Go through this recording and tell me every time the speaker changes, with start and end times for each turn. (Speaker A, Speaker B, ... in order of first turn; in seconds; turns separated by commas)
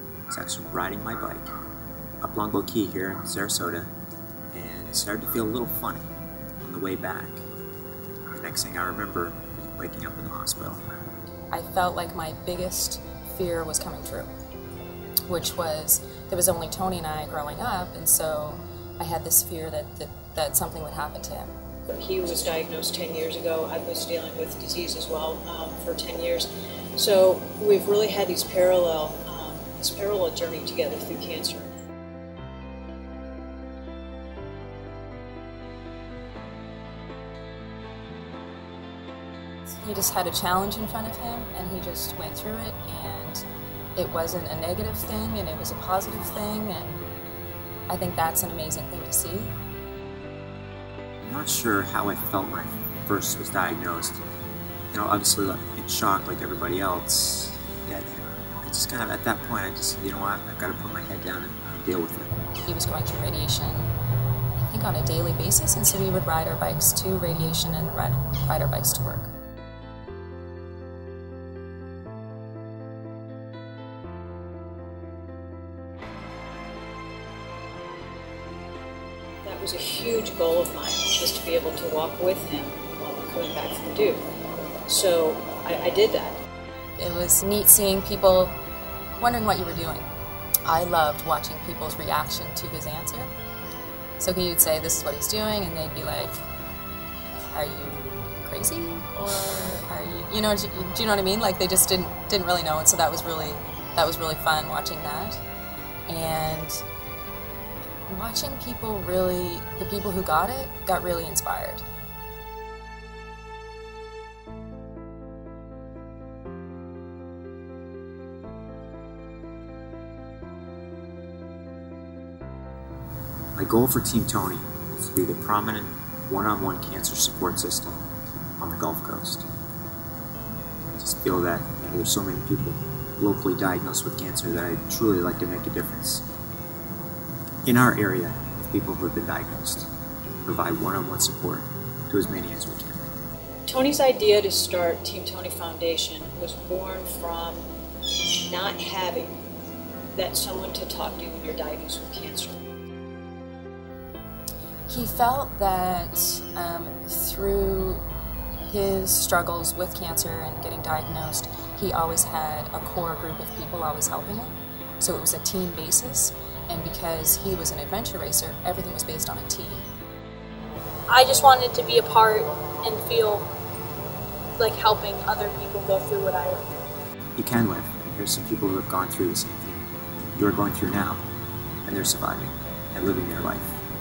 Speaker A: 0.3-1.5, Speaker A: 2.2-3.9, Speaker A: 4.5-6.1, Speaker A: 6.6-7.4, Speaker A: 8.3-10.8, Speaker B: 11.5-14.3, Speaker B: 15.3-21.5, Speaker C: 21.9-31.8, Speaker B: 39.7-43.4, Speaker B: 44.0-47.0, Speaker B: 47.9-49.5, Speaker A: 51.2-54.2, Speaker A: 54.9-62.3, Speaker B: 62.6-63.9, Speaker B: 64.6-69.3, Speaker C: 79.4-84.2, Speaker C: 84.9-86.4, Speaker B: 87.0-88.6, Speaker B: 89.2-90.1, Speaker B: 90.7-93.3, Speaker B: 94.2-96.4, Speaker B: 97.5-105.4, Speaker B: 106.1-106.8, Speaker B: 108.1-111.8, Speaker A: 123.6-128.0, Speaker A: 128.6-129.5, Speaker A: 130.9-136.2, Speaker A: 137.7-139.9, Speaker A: 140.4-143.0, Speaker C: 143.7-147.6, Speaker C: 148.4-149.3, Speaker C: 150.2-152.7, Speaker B: 154.9-158.0, Speaker B: 158.7-169.9, Speaker D: 171.1-173.5, Speaker D: 174.6-176.6, Speaker A: 177.4-181.2, Speaker A: 181.8-183.7